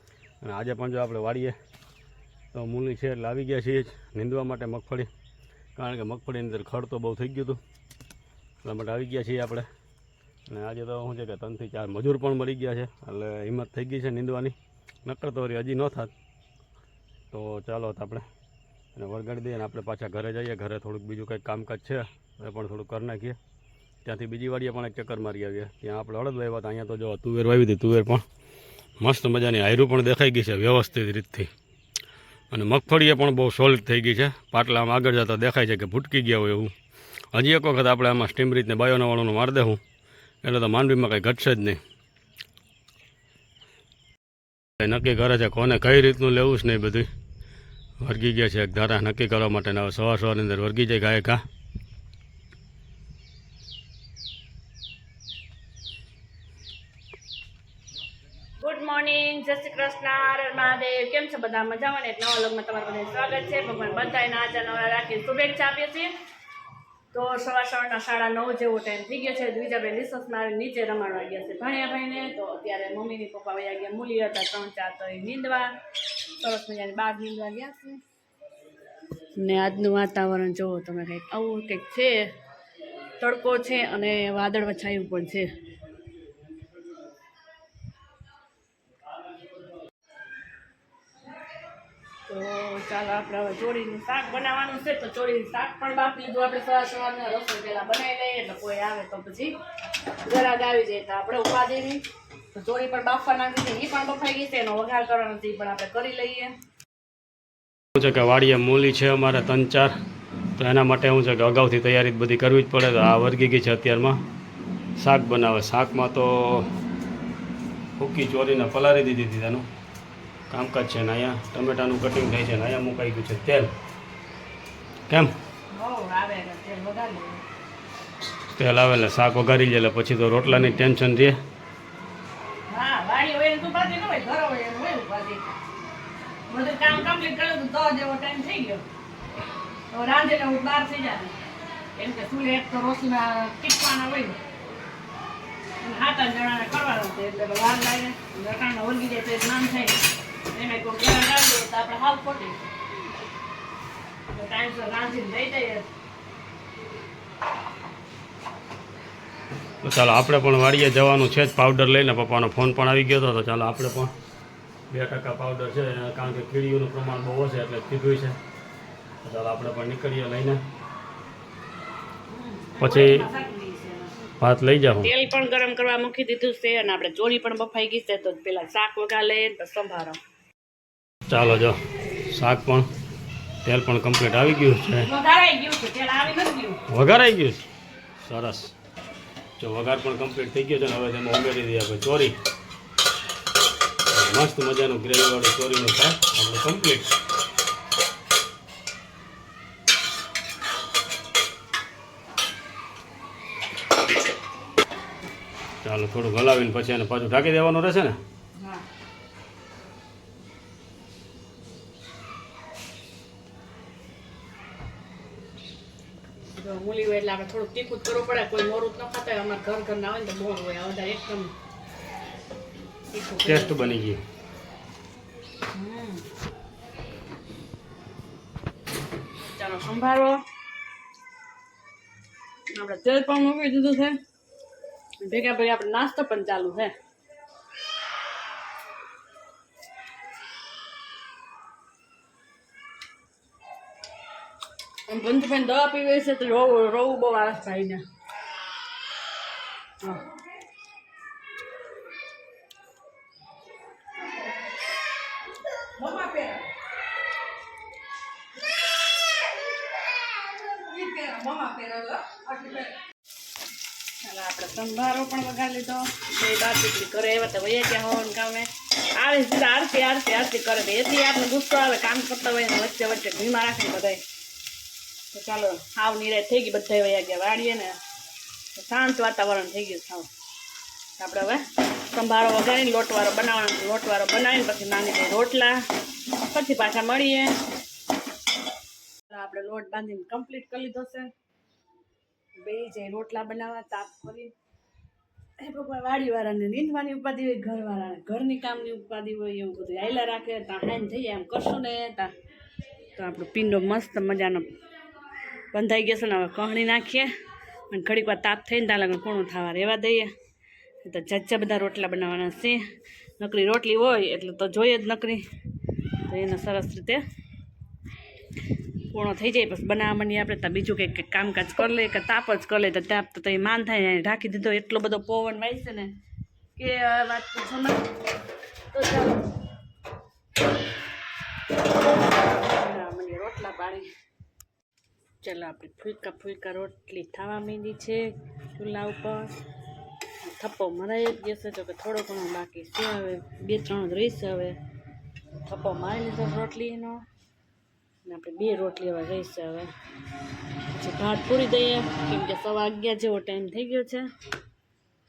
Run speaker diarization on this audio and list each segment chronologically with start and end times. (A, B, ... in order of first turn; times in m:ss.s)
0:00.4-0:01.6 A
0:02.5-0:05.1 A
0:05.8-0:07.6 A
0:08.6-0:09.7 A
0:10.5-0:16.1 A
0:17.3-0:18.2 A
0:19.0-0:23.4 A
0:24.0-0:28.2 A
0:29.0-0:31.5 A
0:32.5-0:36.7 A
0:37.3-0:39.8 A
0:40.4-0:41.8 A
0:44.8-0:47.1 A
0:48.0-0:51.4 A
0:58.6-1:06.1 B
1:07.1-1:15.7 B
1:16.4-1:18.0 B
1:19.4-1:22.3 B
1:23.2-1:25.5 B
1:32.3-1:39.5 B
1:40.2-1:46.5 B
1:47.9-1:49.9 A
1:50.6-1:54.2 A
1:55.0-1:56.7 A
1:58.0-1:59.6 A
2:00.5-2:03.7 A
2:05.1-2:05.3 A
2:05.7-2:07.4 B
2:08.5-2:11.4 A
2:12.7-2:15.5 B
2:16.5-2:18.8 B
2:19.9-2:21.4 B
2:22.0-2:24.4 B
2:25.8-2:30.0 B
2:30.5-2:32.6 B
2:34.3-2:35.9 B
2:39.8-2:44.1 A
2:44.9-2:48.4 A
2:49.2-2:50.6 A
2:52.3-2:54.1 B
2:52.8-2:53.2 A
2:54.4-2:55.1 A
2:55.0-3:00.2 B
3:01.3-3:02.9 A
3:03.6-3:05.1 A
3:05.0-3:06.8 B
3:06.9-3:07.6 A
3:08.2-3:08.7 A
3:09.6-3:12.3 A
3:14.1-3:17.1 A
3:25.8-3:28.2 A
3:28.6-3:28.8 B
3:36.5-3:41.5 B
3:43.1-3:43.9 B
3:43.4-3:44.2 A
3:45.7-3:46.2 B
3:49.5-3:50.4 B
3:52.7-3:54.2 B
3:55.2-3:56.9 B
4:05.1-4:08.0 B
4:16.0-4:16.7 B
4:20.7-4:22.9 B
4:24.2-4:34.2 B
4:35.3-4:38.0 B
4:38.7-4:40.3 B
4:41.2-4:45.8 B
4:46.3-4:47.5 B
4:49.3-4:51.3 B
4:52.6-4:54.5 B
4:55.6-5:02.3 B
5:03.2-5:04.6 B
5:05.7-5:07.3 B
5:07.9-5:10.3 B
5:11.0-5:12.8 B
5:13.4-5:15.4 B
5:16.3-5:17.2 B
5:19.1-5:26.1 B
5:26.8-5:28.0 B
5:28.9-5:29.4 B
5:32.2-5:34.1 B
5:35.4-5:39.6 B
5:40.4-5:44.8 B
5:45.6-5:47.2 B
5:48.2-5:49.9 B
5:50.9-5:54.2 B